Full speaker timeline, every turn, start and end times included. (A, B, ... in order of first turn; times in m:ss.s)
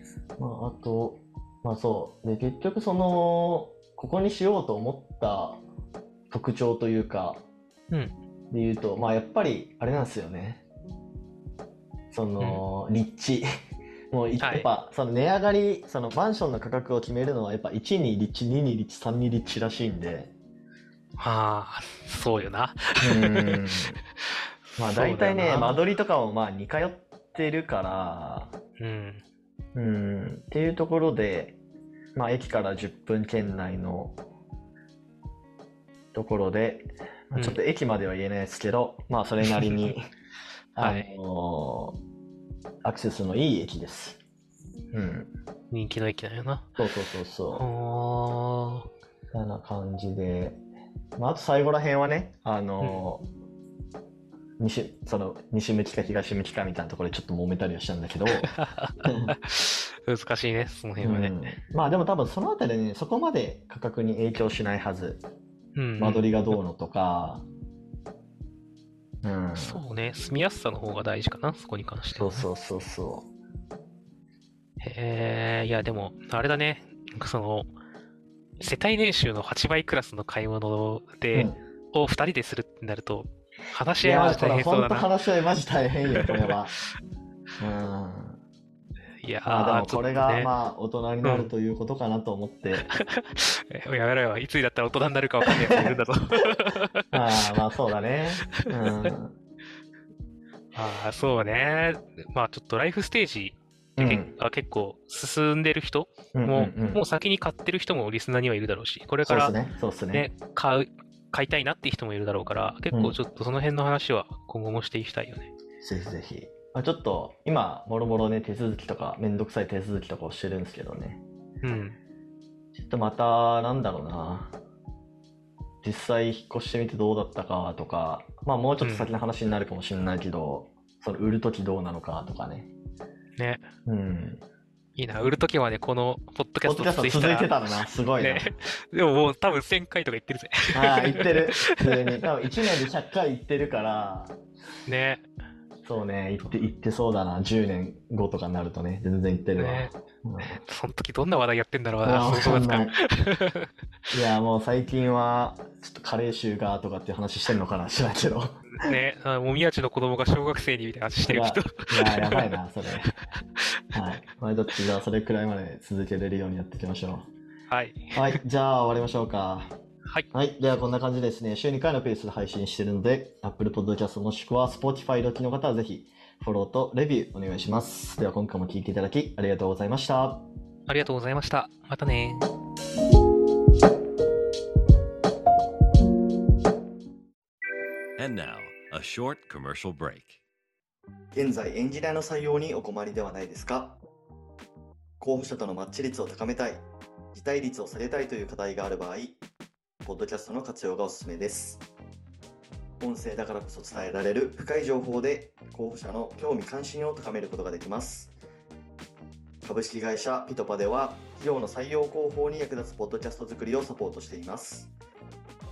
0:00.4-0:05.6 A
0:06.3-0:07.4 A
0:08.5-0:10.6 A
0:12.1-0:13.5 A
0:14.1-0:20.3 A
0:14.4-0:14.7 B
0:21.2-0:23.6 B
0:23.0-0:24.0 A
0:24.8-0:28.6 A
0:24.8-0:25.8 B
0:28.8-0:29.2 B
0:29.8-0:31.6 A
0:32.2-0:34.2 A
0:36.1-0:40.1 A
0:39.5-0:39.8 B
0:40.8-0:42.0 A
0:40.8-0:41.1 B
0:42.8-0:44.2 A
0:44.9-0:45.3 A
0:45.7-0:46.8 B
0:46.8-0:47.7 A
0:47.5-0:48.9 B
0:49.3-0:50.6 A
0:51.2-0:53.3 A
0:52.8-0:53.1 B
0:54.6-0:59.3 A
0:58.4-1:01.3 B
1:01.0-1:05.2 A
1:05.8-1:06.6 B
1:06.0-1:07.5 A
1:09.2-1:09.8 A
1:09.6-1:12.4 B
1:12.2-1:13.3 A
1:14.8-1:17.7 B
1:18.6-1:25.1 B
1:21.3-1:21.6 A
1:24.0-1:26.7 A
1:27.6-1:28.4 A
1:29.2-1:30.5 B
1:29.5-1:32.9 A
1:31.2-1:31.5 B
1:33.0-1:37.5 B
1:35.7-1:36.0 A
1:37.1-1:39.4 A
1:38.6-1:39.1 B
1:40.8-1:49.6 B
1:44.0-1:44.3 A
1:46.3-1:47.0 A
1:49.2-1:50.3 A
1:50.1-1:55.5 B
1:52.9-1:53.2 A
1:55.8-2:01.2 A
2:01.6-2:02.0 B
2:02.8-2:04.6 A
2:05.8-2:12.7 A
2:08.8-2:09.1 B
2:13.4-2:13.6 B
2:13.9-2:14.4 A
2:15.0-2:21.9 B
2:16.6-2:18.5 A
2:20.7-2:24.3 A
2:24.9-2:25.2 B
2:25.8-2:30.6 A
2:29.6-2:33.7 B
2:32.0-2:33.0 A
2:34.1-2:38.7 A
2:38.8-2:42.5 B
2:41.3-2:43.2 A
2:43.9-2:47.3 A
2:47.7-2:48.4 B
2:48.2-2:49.7 A
2:50.3-3:00.5 A
3:00.9-3:02.5 B
3:08.2-3:10.4 C
3:11.3-3:14.0 A
3:15.2-3:19.4 A
3:20.0-3:21.8 A
3:23.0-3:28.3 A
3:29.6-3:34.9 A